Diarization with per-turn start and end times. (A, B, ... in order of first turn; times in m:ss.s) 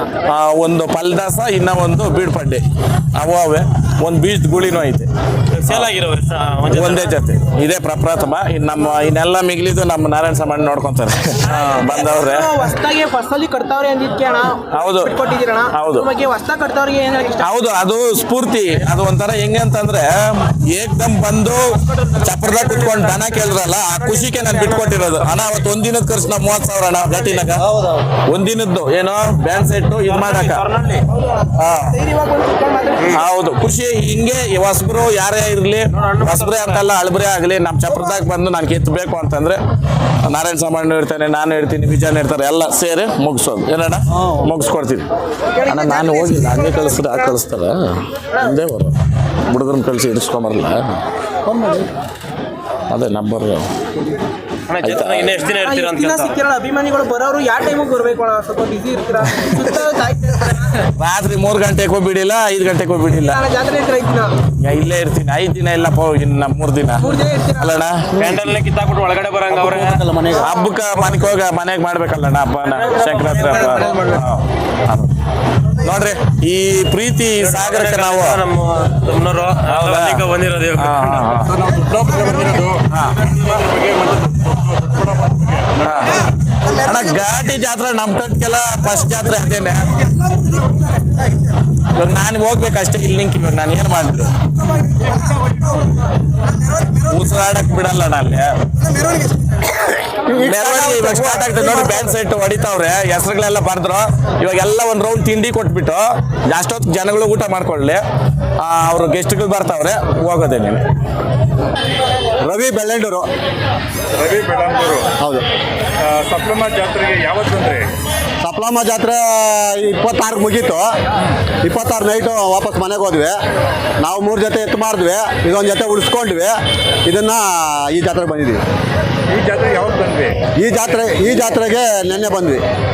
0:00.2-0:02.6 A
0:03.1-0:05.1 A
0:05.5-0:07.2 B
0:06.6-0:12.5 A
0:11.4-0:17.5 C
0:14.7-0:15.1 A
0:15.7-0:16.1 A
0:17.4-0:27.6 A
0:22.0-0:25.6 B
0:28.3-0:30.7 A
0:30.1-0:31.0 B
0:31.6-0:31.9 A
0:32.1-0:33.0 C
0:33.1-0:39.6 A
0:36.0-0:36.8 B
0:40.2-0:45.1 A
0:45.6-0:48.9 A
0:45.8-0:47.1 C
0:49.4-0:51.0 A
0:52.9-0:53.7 A
0:54.7-0:56.4 B
0:54.8-0:55.5 A
0:55.5-1:00.9 C
1:01.0-1:03.4 A
1:03.2-1:04.3 C
1:04.6-1:08.0 A
1:07.0-1:07.8 C
1:08.2-1:10.3 B
1:10.4-1:15.1 A
1:12.8-1:14.2 B
1:15.8-1:18.4 A
1:17.4-1:21.7 B
1:19.7-1:20.2 A
1:20.8-1:21.7 A
1:22.3-1:22.7 B
1:22.9-1:23.4 A
1:23.3-1:25.0 B
1:25.8-1:30.0 A
1:31.9-1:34.3 A
1:37.1-1:38.6 A
1:40.2-1:48.0 A
1:48.6-1:50.8 A
1:52.4-1:53.3 D
1:54.2-1:55.0 E
1:55.2-1:55.4 D
1:56.0-1:57.8 E
1:58.4-2:00.9 D
2:01.6-2:03.4 D
2:04.0-2:08.6 D
2:09.3-2:10.3 E
2:10.6-2:12.6 D